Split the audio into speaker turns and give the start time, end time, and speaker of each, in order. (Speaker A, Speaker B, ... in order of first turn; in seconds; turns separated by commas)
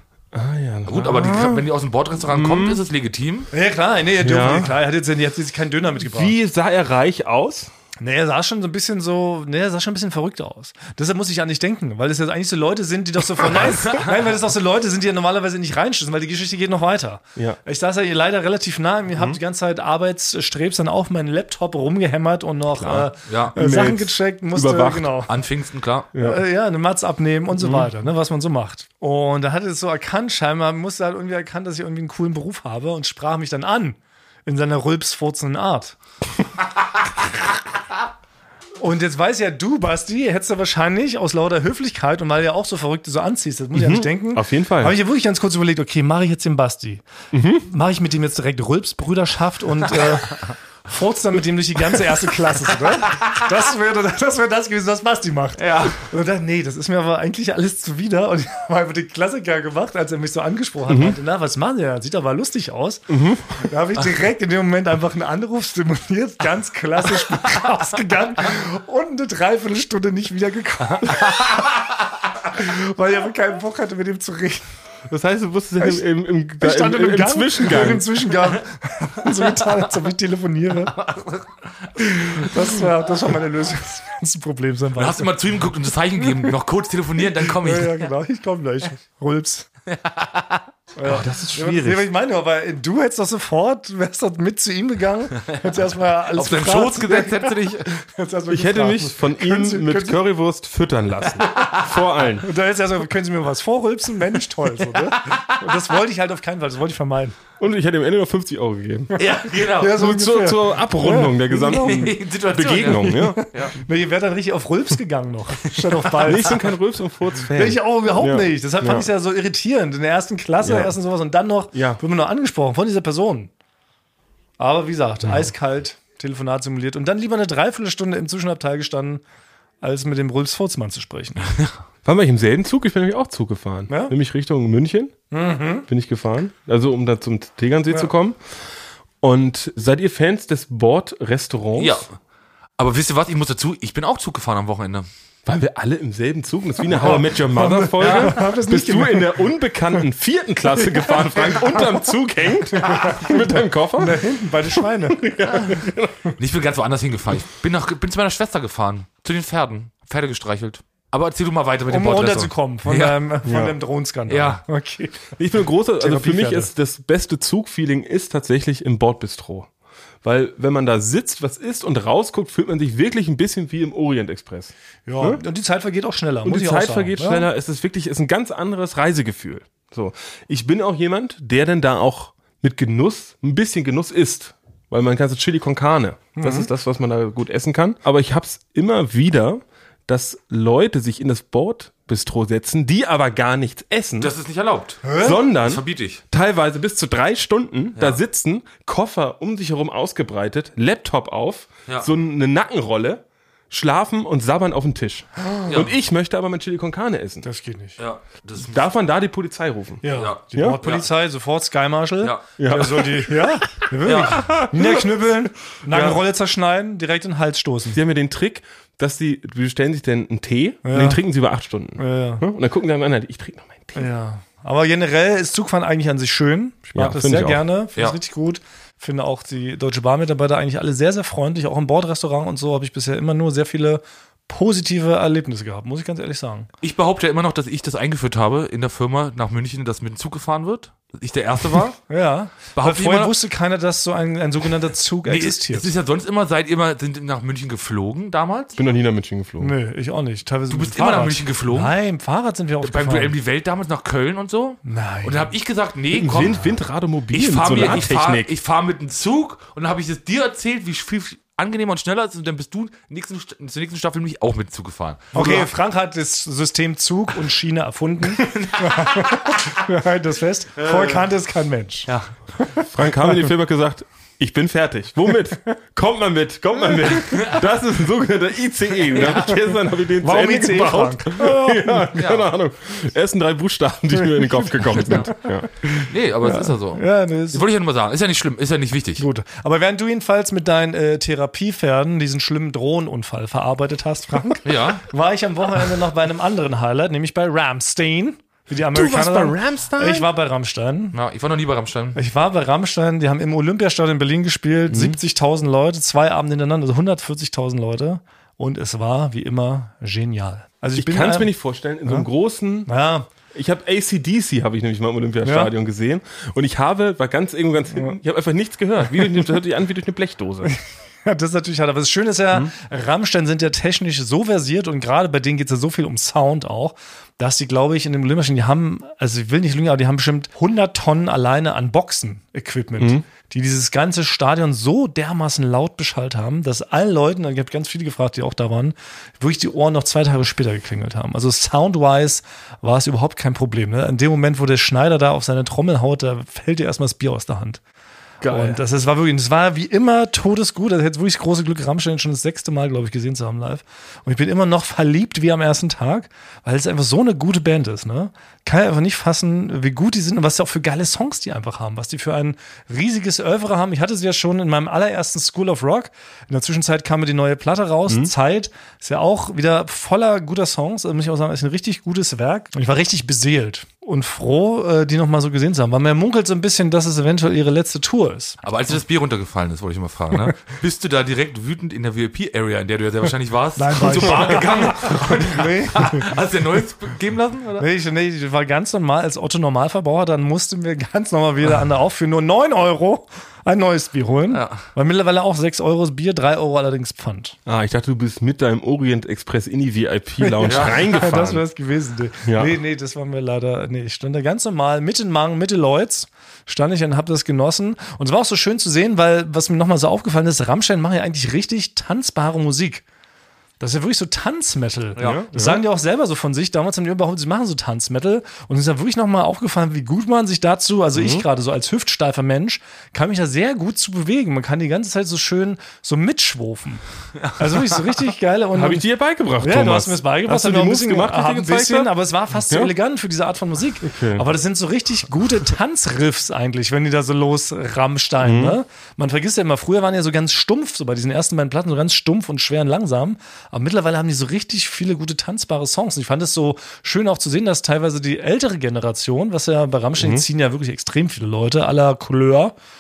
Speaker A: 0.3-1.7, Speaker B: 0.9-3.5, Speaker A: 2.2-2.8, Speaker C: 3.5-6.3, Speaker A: 4.2-4.8, Speaker A: 6.0-7.7, Speaker C: 8.0-25.3, Speaker B: 13.7-14.1, Speaker A: 22.8-25.3, Speaker B: 23.3-23.6, Speaker B: 25.3-26.1, Speaker A: 26.1-26.4, Speaker C: 26.2-36.0, Speaker A: 27.6-27.9, Speaker C: 38.8-47.1, Speaker A: 43.7-45.0, Speaker A: 47.3-47.7, Speaker C: 47.6-71.8, Speaker B: 55.6-56.0, Speaker A: 60.9-61.2, Speaker A: 63.1-63.7, Speaker C: 72.4-74.7, Speaker A: 75.1-78.3, Speaker C: 76.6-81.0, Speaker B: 80.9-82.4, Speaker C: 82.1-85.3, Speaker B: 85.0-88.1, Speaker C: 87.4-89.7, Speaker B: 89.9-90.7, Speaker C: 91.0-100.2, Speaker A: 91.0-92.1, Speaker B: 96.3-97.9, Speaker A: 98.5-102.5, Speaker B: 101.5-101.9, Speaker C: 102.4-107.4, Speaker B: 104.8-105.8, Speaker A: 107.6-109.2, Speaker B: 109.2-110.1, Speaker C: 109.7-112.1, Speaker A: 109.9-113.4, Speaker B: 111.6-113.8, Speaker C: 112.9-116.7, Speaker A: 116.2-119.1, Speaker C: 117.5-123.5, Speaker A: 120.6-120.9, Speaker A: 121.7-122.0, Speaker C: 124.6-129.2, Speaker A: 125.2-125.5, Speaker C: 129.8-131.5, Speaker A: 132.0-135.2, Speaker C: 133.9-134.1, Speaker C: 135.3-135.9, Speaker A: 135.9-138.4, Speaker A: 139.2-142.1, Speaker B: 141.8-142.1, Speaker B: 142.8-145.1, Speaker A: 145.5-154.2, Speaker C: 146.9-149.4, Speaker C: 150.8-152.0, Speaker C: 152.7-155.3, Speaker A: 155.1-156.3, Speaker B: 156.4-163.2, Speaker C: 161.9-165.3, Speaker A: 163.4-163.8, Speaker B: 164.3-164.6, Speaker A: 165.4-169.7, Speaker C: 166.0-166.7, Speaker A: 170.2-175.4, Speaker C: 175.1-177.5, Speaker A: 176.4-194.3, Speaker C: 186.4-186.7, Speaker B: 194.2-196.2, Speaker C: 195.0-195.4, Speaker A: 195.2-207.5, Speaker C: 205.4-205.8, Speaker C: 207.4-208.0, Speaker B: 208.0-208.9, Speaker A: 208.6-210.8, Speaker C: 210.0-218.0, Speaker B: 210.1-211.1, Speaker A: 212.6-213.6, Speaker B: 214.0-214.4, Speaker A: 214.3-215.2, Speaker A: 215.9-216.2, Speaker A: 217.9-224.1, Speaker C: 220.8-221.2, Speaker C: 222.0-222.4, Speaker C: 223.9-236.7, Speaker A: 226.9-227.6, Speaker B: 236.8-242.0, Speaker C: 242.1-245.9, Speaker B: 242.8-243.4, Speaker B: 245.3-248.8, Speaker A: 248.8-249.7, Speaker C: 249.6-253.3, Speaker B: 250.7-251.9, Speaker B: 252.8-256.7, Speaker C: 254.8-255.5, Speaker A: 256.1-258.5, Speaker B: 257.3-265.7, Speaker C: 265.3-273.3, Speaker B: 268.3-269.8, Speaker B: 270.9-271.2, Speaker A: 272.9-285.7, Speaker B: 277.2-277.6, Speaker B: 279.1-279.6, Speaker C: 280.2-282.2, Speaker B: 282.2-282.5, Speaker C: 284.2-285.3, Speaker C: 285.9-287.6, Speaker B: 286.0-289.2, Speaker C: 289.2-301.2, Speaker B: 294.6-295.1, Speaker A: 298.9-300.3, Speaker B: 301.1-302.2, Speaker C: 302.1-311.5, Speaker A: 304.9-305.2, Speaker A: 311.0-312.9, Speaker C: 312.9-313.3, Speaker A: 313.5-320.7, Speaker C: 315.4-315.7, Speaker C: 320.6-347.8, Speaker A: 333.0-333.2, Speaker A: 348.4-348.8, Speaker C: 348.5-378.6, Speaker B: 378.6-387.9, Speaker C: 383.8-386.3, Speaker C: 387.8-397.6, Speaker B: 394.5-394.8, Speaker A: 397.7-401.6, Speaker C: 400.4-413.0, Speaker B: 400.6-401.0, Speaker A: 402.4-402.8, Speaker C: 413.8-427.0, Speaker A: 415.2-415.8, Speaker A: 421.1-421.4, Speaker B: 427.5-427.8, Speaker C: 427.6-429.0, Speaker A: 428.7-432.9, Speaker C: 429.6-452.7, Speaker A: 434.0-434.5, Speaker A: 438.4-438.8, Speaker A: 450.2-450.4